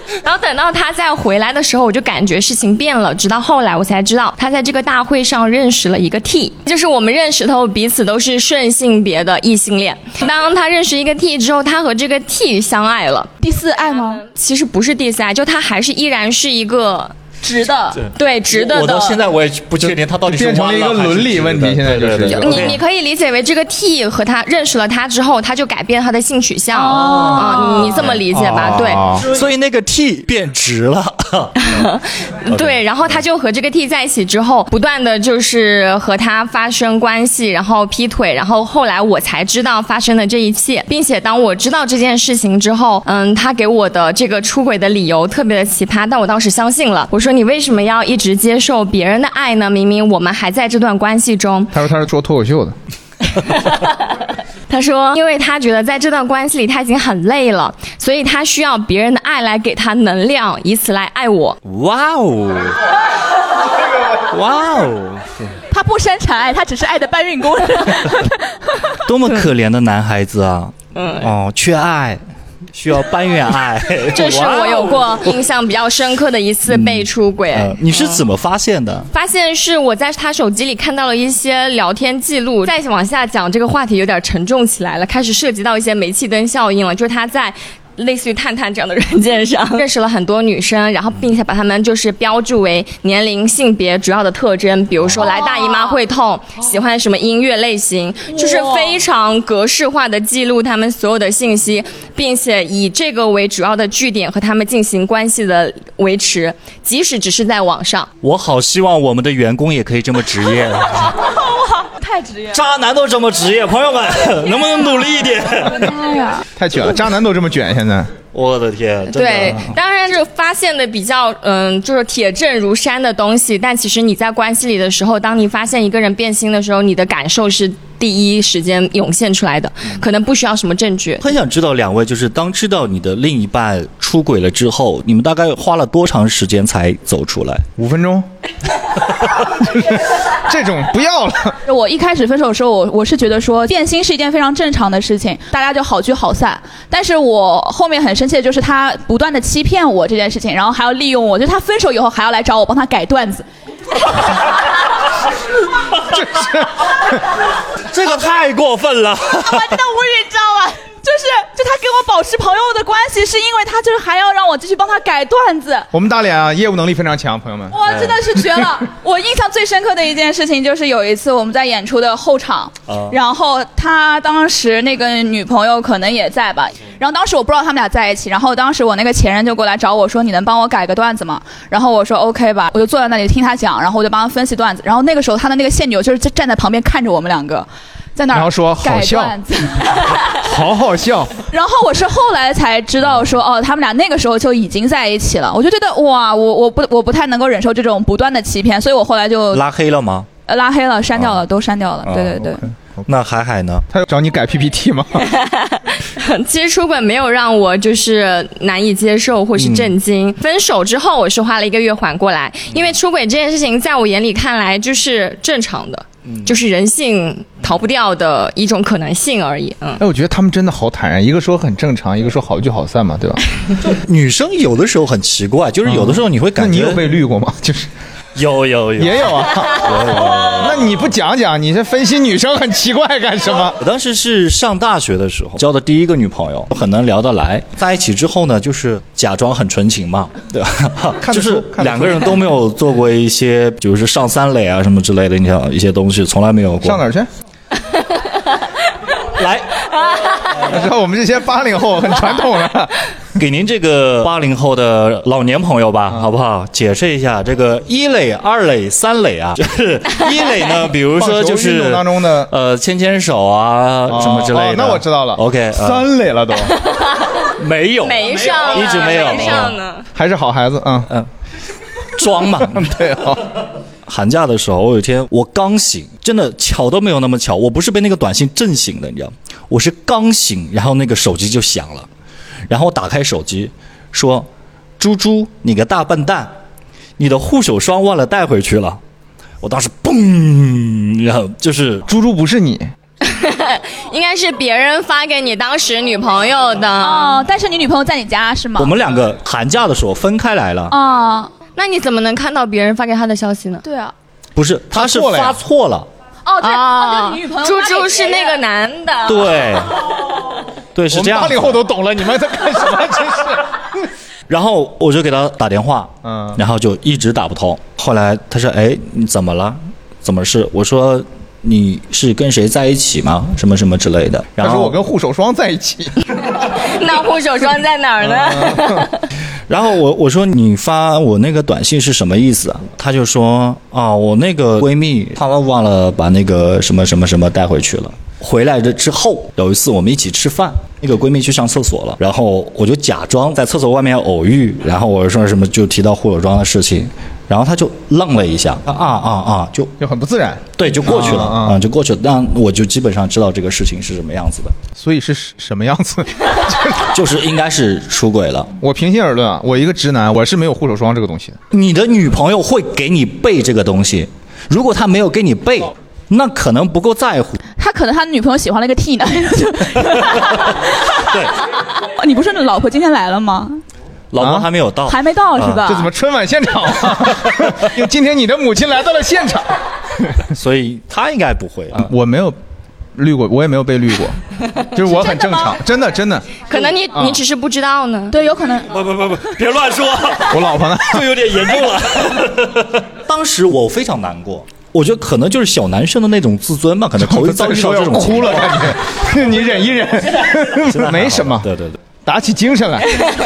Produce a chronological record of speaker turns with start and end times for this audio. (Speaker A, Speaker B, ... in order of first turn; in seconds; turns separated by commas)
Speaker A: 0.2-13.3, Speaker B: 13.4-14.2, Speaker A: 14.0-17.1, Speaker B: 17.4-17.9, Speaker C: 17.9-22.8, Speaker A: 18.0-19.2, Speaker D: 19.9-22.7, Speaker A: 22.4-29.0, Speaker B: 26.7-28.0, Speaker C: 27.0-27.4, Speaker D: 28.3-29.3, Speaker C: 29.1-31.7, Speaker A: 31.6-51.7, Speaker C: 32.5-32.8, Speaker D: 51.7-52.8, Speaker A: 53.4-54.1, Speaker A: 54.7-61.6, Speaker C: 61.6-62.8, Speaker C: 64.2-65.6, Speaker B: 65.7-68.8, Speaker C: 69.0-72.2, Speaker A: 71.0-71.3, Speaker C: 72.7-75.2, Speaker A: 74.1-78.3, Speaker C: 76.7-79.1, Speaker A: 79.1-108.1, Speaker B: 95.3-95.9, Speaker B: 98.5-98.9, Speaker C: 108.2-111.2, Speaker B: 111.3-112.6, Speaker C: 112.5-116.0, Speaker B: 115.7-116.4, Speaker D: 116.6-118.1, Speaker C: 118.3-119.8, Speaker A: 119.1-131.2, Speaker C: 131.2-137.7, Speaker D: 137.8-138.3, Speaker D: 139.4-141.6, Speaker B: 141.7-153.4, Speaker D: 156.1-156.8, Speaker C: 157.8-159.8, Speaker B: 159.3-165.9, Speaker D: 165.9-167.8, Speaker B: 167.7-190.3, Speaker C: 167.9-168.2, Speaker C: 172.9-173.2, Speaker D: 188.3-189.4, Speaker D: 190.3-191.3, Speaker B: 191.5-199.6, Speaker C: 199.5-200.3, Speaker B: 200.5-202.6, Speaker C: 202.0-203.9, Speaker D: 203.9-205.2, Speaker A: 205.2-220.0, Speaker C: 209.6-209.9, Speaker C: 216.3-216.5, Speaker D: 220.0-223.4, Speaker C: 223.8-227.0, Speaker D: 225.9-227.9, Speaker C: 228.3-231.1, Speaker D: 229.0-229.9, Speaker D: 230.5-233.8, Speaker C: 233.7-247.0, Speaker D: 241.2-242.3, Speaker D: 246.8-247.3, Speaker C: 249.3-249.8, Speaker D: 250.6-253.0, Speaker C: 253.4-266.1, Speaker D: 261.1-262.5, Speaker D: 264.1-266.8, Speaker A: 266.8-267.5, Speaker C: 267.6-269.8, Speaker A: 268.0-270.1, Speaker D: 270.1-271.1, Speaker C: 272.1-273.4, Speaker D: 272.7-273.4, Speaker C: 274.1-282.1, Speaker C: 282.7-286.5, Speaker C: 287.2-289.0, Speaker C: 289.6-292.1, Speaker D: 292.1-292.9, Speaker A: 293.2-297.4, Speaker B: 297.0-298.9, Speaker C: 298.8-301.0, Speaker B: 300.9-301.5, Speaker A: 301.8-303.8, Speaker B: 303.8-304.1, Speaker C: 304.6-306.1, Speaker D: 305.0-305.6, Speaker B: 306.5-308.6, Speaker A: 306.6-309.8, Speaker C: 309.3-310.1, Speaker C: 310.9-311.9, Speaker D: 311.1-313.7, Speaker C: 314.5-325.0, Speaker D: 316.2-316.6, Speaker D: 324.6-326.1, Speaker A: 326.5-329.2, Speaker D: 328.4-328.9, Speaker C: 329.7-349.9, Speaker D: 350.0-351.8, Speaker C: 350.8-354.8, Speaker D: 355.0-357.1, Speaker C: 357.1-358.7, Speaker D: 358.8-361.6, Speaker C: 361.7-367.6, Speaker B: 367.8-371.0, Speaker C: 370.3-370.6, Speaker C: 371.2-371.5, Speaker B: 372.0-373.8, Speaker C: 374.3-376.0, Speaker D: 374.4-374.7, Speaker B: 375.1-376.1, Speaker D: 375.9-380.3, Speaker C: 380.5-382.1, Speaker D: 382.0-382.6, Speaker D: 383.1-384.4, Speaker D: 384.9-386.6, Speaker B: 385.2-385.7, Speaker A: 386.7-388.4, Speaker B: 388.3-388.9, Speaker C: 388.9-399.0, Speaker D: 390.5-391.3, Speaker D: 397.2-401.7, Speaker C: 400.9-402.0, Speaker D: 402.2-403.2